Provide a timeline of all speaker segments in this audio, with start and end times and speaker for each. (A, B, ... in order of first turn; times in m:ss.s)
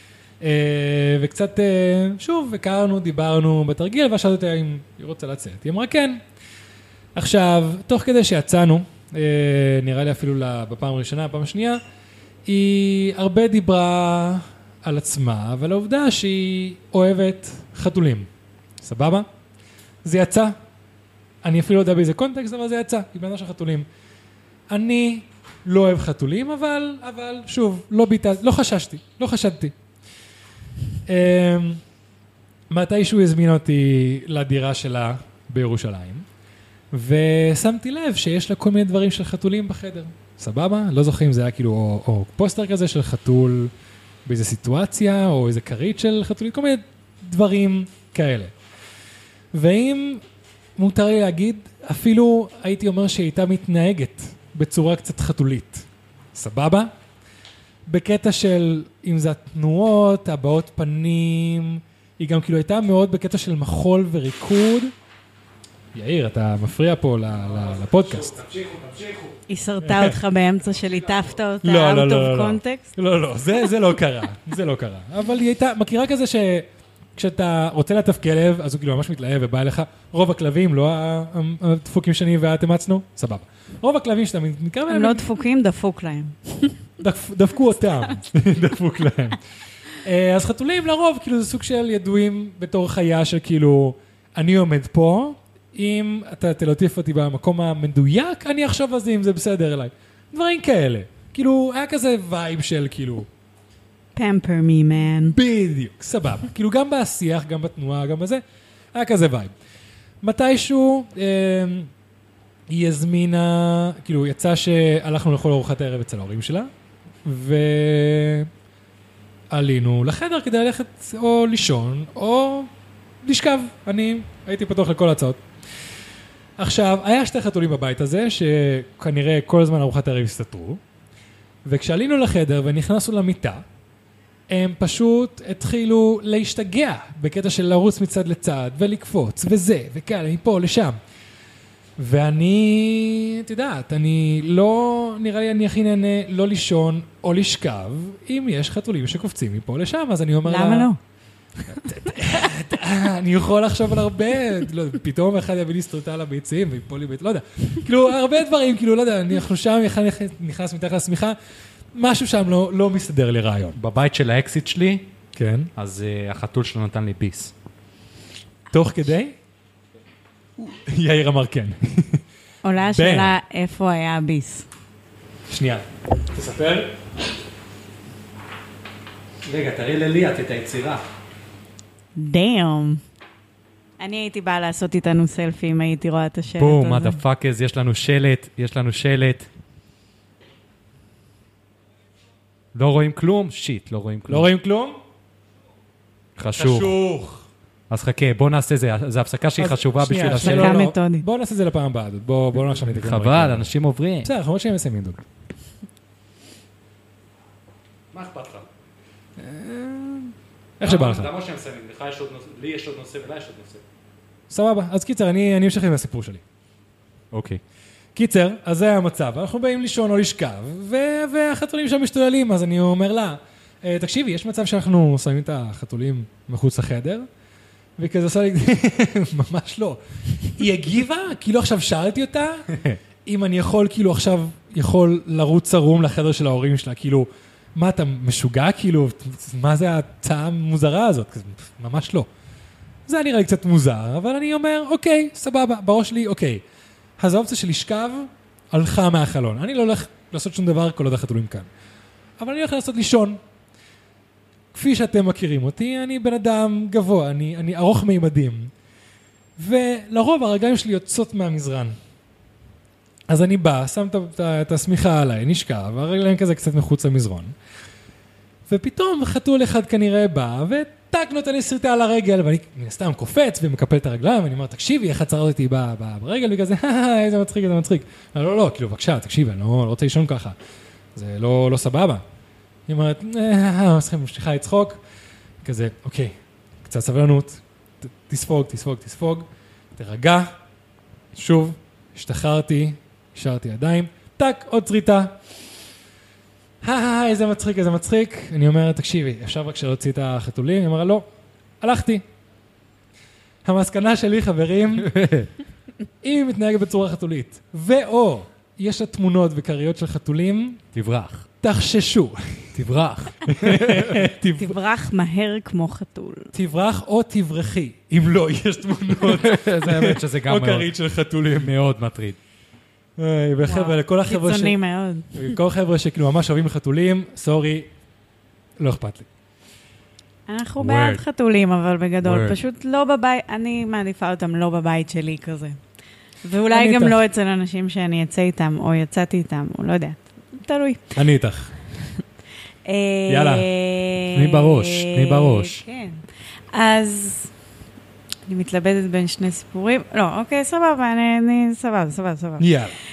0:00.4-0:06.2 A
0:07.1-0:11.8 A
0:12.4-0:18.3 A
0:18.8-0:19.2 A
0:20.0-0:20.5 A
0:21.4-0:23.8 A
0:24.7-0:29.7 A
0:31.1-0:31.8 A
0:32.7-0:36.2 A
0:36.9-0:43.7 A
0:44.2-0:48.5 A
0:49.5-0:50.2 A
0:50.8-0:56.9 A
0:57.8-1:04.9 A
1:05.9-1:08.3 A
1:07.4-1:09.4 B
1:09.5-1:12.9 C
1:09.8-1:10.2 A
1:11.6-1:25.2 A
1:24.9-1:26.7 C
1:27.0-1:29.4 A
1:30.0-1:43.3 A
1:44.1-1:45.4 C
1:45.3-1:48.4 A
1:48.9-1:49.5 A
1:50.2-1:51.9 A
1:52.7-1:56.7 A
1:57.2-1:58.5 A
1:59.5-2:02.7 A
2:03.2-2:05.4 A
2:06.6-2:10.8 A
2:11.6-2:13.6 A
2:14.5-2:21.0 A
2:22.0-2:30.9 A
2:30.4-2:31.0 C
2:31.6-2:41.4 A
2:41.9-2:43.8 A
2:43.8-2:45.1 B
2:45.4-2:45.7 A
2:45.8-2:47.5 B
2:48.7-2:49.3 A
2:50.6-2:52.2 A
2:52.6-2:54.7 C
2:52.9-2:53.3 A
2:55.5-2:56.9 A
2:59.4-3:01.0 B
3:02.2-3:03.0 C
3:04.0-3:07.2 C
3:06.5-3:09.5 B
3:12.7-3:14.5 B
3:14.3-3:15.0 A
3:16.4-3:16.9 B
3:16.6-3:17.5 A
3:17.9-3:20.8 B
3:19.6-3:23.7 A
3:20.2-3:21.2 C
3:22.8-3:24.3 B
3:24.2-3:25.2 A
3:28.1-3:28.7 B
3:29.4-3:31.3 A
3:30.8-3:33.8 B
3:34.5-3:36.4 A
3:37.3-3:37.6 B
3:38.1-3:47.3 A
3:48.0-3:52.7 A
3:52.7-3:53.0 B
3:53.2-4:02.3 A
4:03.1-4:06.6 A
4:07.2-4:11.7 A
4:12.4-4:13.4 A
4:14.7-4:18.7 A
4:19.6-4:22.0 A
4:23.3-4:27.5 A
4:28.7-4:40.5 A
4:41.1-4:42.2 A
4:42.9-4:45.0 A
4:45.6-4:50.5 A
4:51.3-4:55.4 A
4:56.8-5:01.2 A
5:01.8-5:02.2 A
5:03.6-5:05.2 A
5:05.0-5:05.5 B
5:06.2-5:10.8 A
5:10.9-5:11.5 B
5:11.6-5:12.7 A
5:12.7-5:14.2 B
5:13.4-5:14.7 A
5:14.6-5:16.5 C
5:16.5-5:21.7 A
5:19.2-5:20.9 B
5:21.5-5:22.4 B
5:23.2-5:24.8 A
5:23.7-5:25.6 C
5:25.3-5:27.9 A
5:28.8-5:29.3 A
5:30.5-5:35.8 C
5:30.8-5:31.2 B
5:32.2-5:32.6 B
5:36.4-5:41.1 C
5:36.7-5:37.2 A
5:41.1-5:41.7 A
5:42.8-5:47.5 C
5:43.3-5:43.7 A
5:44.3-5:45.8 B
5:48.5-5:52.7 C
5:52.6-5:53.0 A